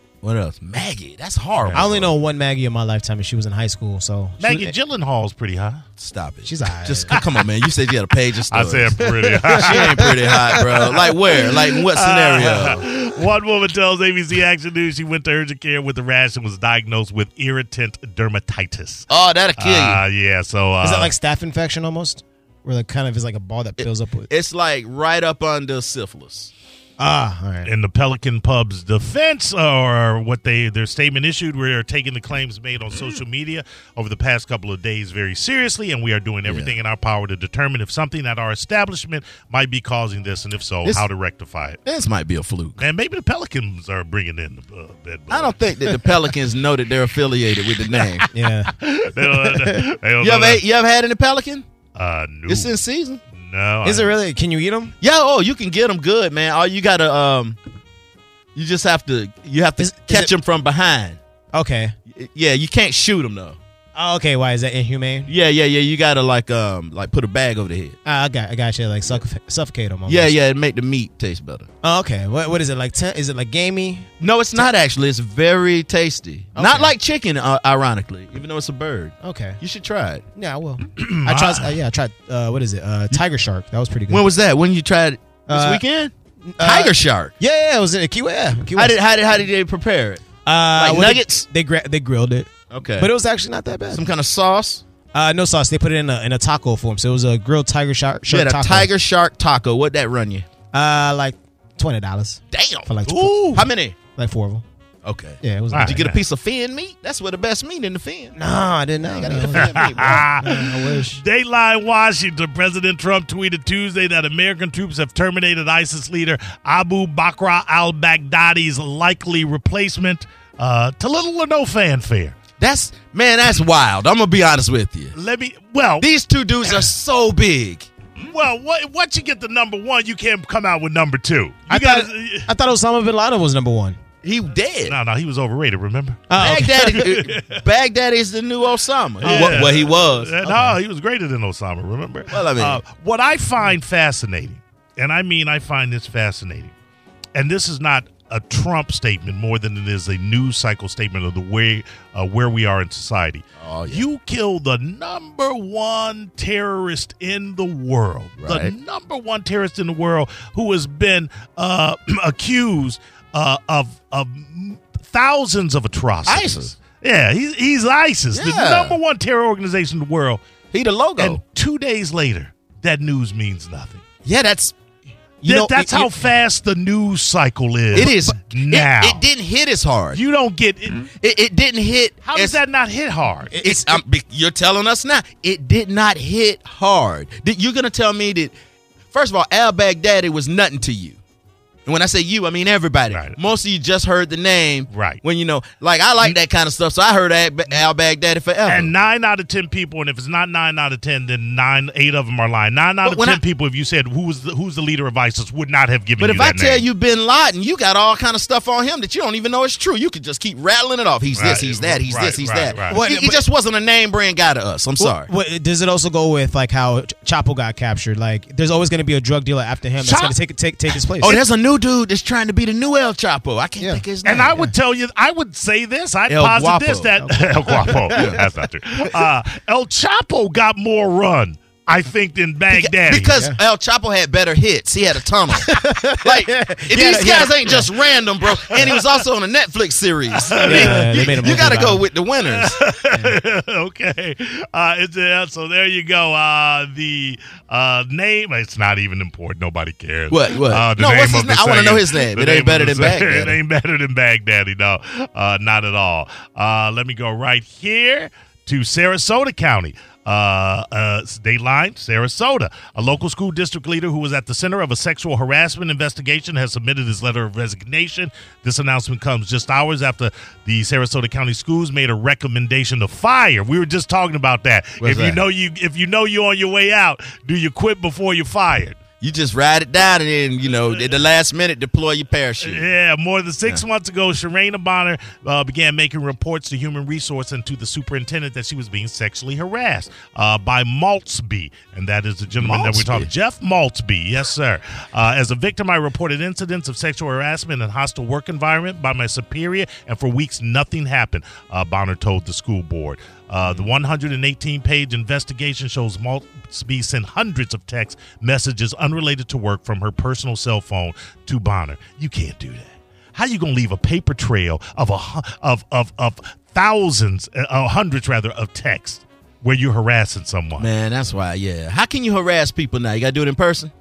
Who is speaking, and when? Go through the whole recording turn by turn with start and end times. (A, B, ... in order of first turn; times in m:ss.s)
0:00.2-0:02.1 A
0:01.6-0:01.9 B
0:01.7-0:04.7 C
0:04.4-0:05.8 B
0:06.0-0:12.8 A
0:06.4-0:07.2 C
0:08.5-0:21.1 B
0:09.3-0:11.1 C
0:19.1-0:20.0 A
0:20.8-0:24.3 C
0:23.8-0:26.5 A
0:27.0-0:27.7 C
0:27.6-0:41.8 B
0:36.5-0:36.7 A
0:41.8-0:42.8 A
0:42.8-0:45.6 B
0:45.3-0:48.3 A
0:47.9-0:50.6 B
0:48.3-0:48.7 C
0:49.3-0:49.8 C
0:50.2-0:51.6 A
0:52.0-0:52.7 B
0:52.5-0:53.2 A
0:53.3-0:54.1 B
0:53.8-0:54.9 C
0:55.0-0:57.6 A
0:58.6-1:01.2 A
0:59.8-1:00.3 C
1:01.5-1:02.0 C
1:02.1-1:03.6 A
1:04.0-1:05.3 C
1:05.3-1:08.0 A
1:08.0-1:10.3 C
1:10.1-1:11.7 A
1:11.8-1:14.7 C
1:14.2-1:20.2 A
1:16.6-1:16.9 C
1:19.2-1:19.6 C
1:20.4-1:24.3 C
1:21.0-1:21.8 B
1:24.1-1:27.3 A
1:25.5-1:25.8 C
1:26.5-1:29.0 C
1:28.8-1:30.2 A
1:30.5-1:34.0 C
1:30.8-1:31.4 A
1:32.7-1:33.1 A
1:33.9-1:34.8 A
1:35.1-1:38.9 C
1:38.3-1:40.4 A
1:40.7-1:44.6 C
1:42.5-1:43.0 A
1:43.1-1:43.6 B
1:43.5-1:44.0 A
1:45.0-1:48.4 A
1:45.4-1:46.0 C
1:45.7-1:46.2 B
1:48.4-1:51.2 C
1:49.1-1:50.3 A
1:49.5-2:02.4 B
2:02.6-2:05.2 A
2:05.1-2:06.1 B
2:06.0-2:07.9 A
2:08.2-2:12.5 B
2:11.7-2:14.0 C
2:14.2-2:15.0 A
2:14.9-2:17.6 B
2:16.3-2:17.1 C
2:16.4-2:20.3 A
2:19.2-2:19.7 C
2:19.2-2:26.7 B
2:20.4-2:20.8 C
2:22.3-2:22.8 A
2:27.4-2:50.4 B
2:33.6-2:34.0 A
2:38.4-2:38.8 A
2:46.3-2:46.7 A
2:48.3-2:49.0 A
2:50.7-2:51.4 A
2:51.2-2:54.0 B
2:54.2-2:54.8 A
2:55.4-2:56.1 A
2:55.4-2:59.2 B
2:57.9-3:00.2 A
2:58.0-2:58.2 C
3:00.1-3:01.1 B
3:01.0-3:02.6 A
3:02.3-3:03.6 B
3:03.5-3:04.0 C
3:03.6-3:08.5 A
3:09.1-3:11.2 A
3:11.9-3:18.9 A
3:13.1-3:13.4 B
3:14.9-3:15.2 B
3:18.7-3:26.8 B
3:23.0-3:23.4 A
3:26.2-3:35.3 A
3:31.4-3:33.0 B
3:32.9-3:33.4 C
3:35.0-3:41.4 C
3:40.0-3:40.4 B
3:41.2-3:44.6 A
3:43.8-3:44.7 C
3:44.2-3:53.3 B
3:46.3-3:47.1 A
3:47.2-3:48.4 C
3:48.1-3:48.4 A
3:52.7-4:02.8 A
3:53.3-3:53.6 C
3:55.5-3:57.9 C
3:58.6-3:59.2 B
4:00.3-4:01.6 B
4:00.6-4:02.0 C
4:02.5-4:39.0 B
4:10.3-4:13.6 A
4:35.0-4:35.4 A
4:39.2-4:42.9 A
4:42.6-5:20.9 B
4:52.6-4:53.3 A
5:20.8-5:23.9 A